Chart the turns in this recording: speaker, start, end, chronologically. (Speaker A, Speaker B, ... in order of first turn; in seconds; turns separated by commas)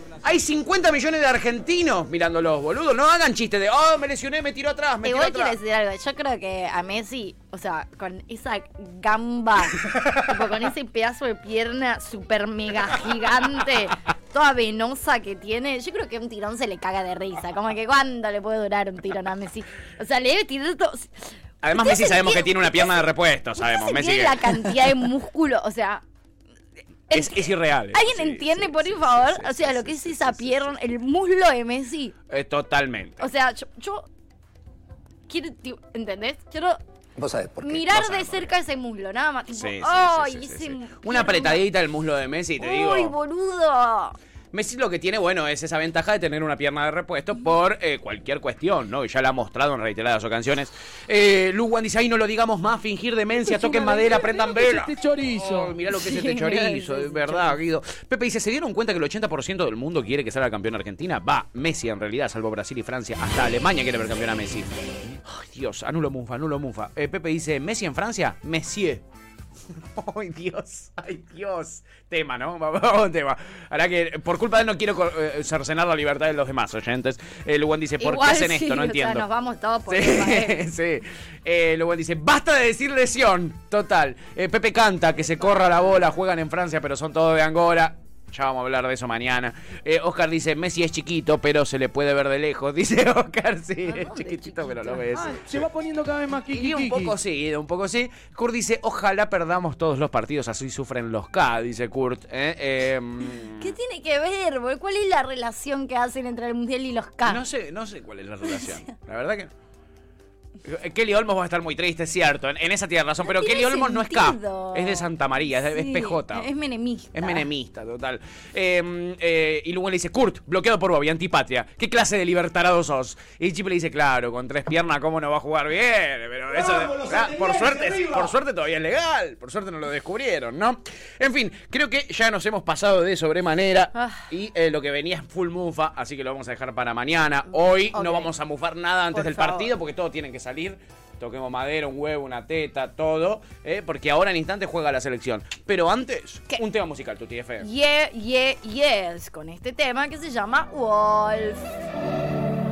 Speaker A: 0.2-5.5, Speaker B: 5.0-21.1, Speaker A: 21.6-24.9, Speaker B: 21.7-23.0, Speaker B: 23.6-26.0, Speaker B: 27.1-32.1, Speaker A: 27.1-30.7, Speaker A: 32.3-33.2, Speaker B: 33.2-34.1, Speaker B: 35.3-36.8, Speaker B: 37.6-41.6, Speaker A: 37.6-38.5, Speaker A: 39.5-43.1, Speaker B: 42.6-44.1, Speaker A: 44.5-69.0, Speaker B: 53.5-54.3, Speaker C: 53.8-55.8, Speaker B: 55.9-57.6, Speaker A: 70.0-79.2, Speaker B: 78.0-80.6, Speaker A: 79.9-95.7, Speaker B: 93.8-95.1, Speaker C: 95.2-97.2, Speaker A: 96.5-103.7, Speaker B: 103.2-107.4, Speaker A: 107.2-109.5, Speaker A: 110.6-116.5, Speaker B: 113.2-117.5, Speaker A: 117.1-147.7, Speaker C: 126.7-128.2, Speaker B: 133.9-134.2, Speaker B: 137.9-138.3, Speaker B: 139.1-139.7, Speaker B: 147.6-151.7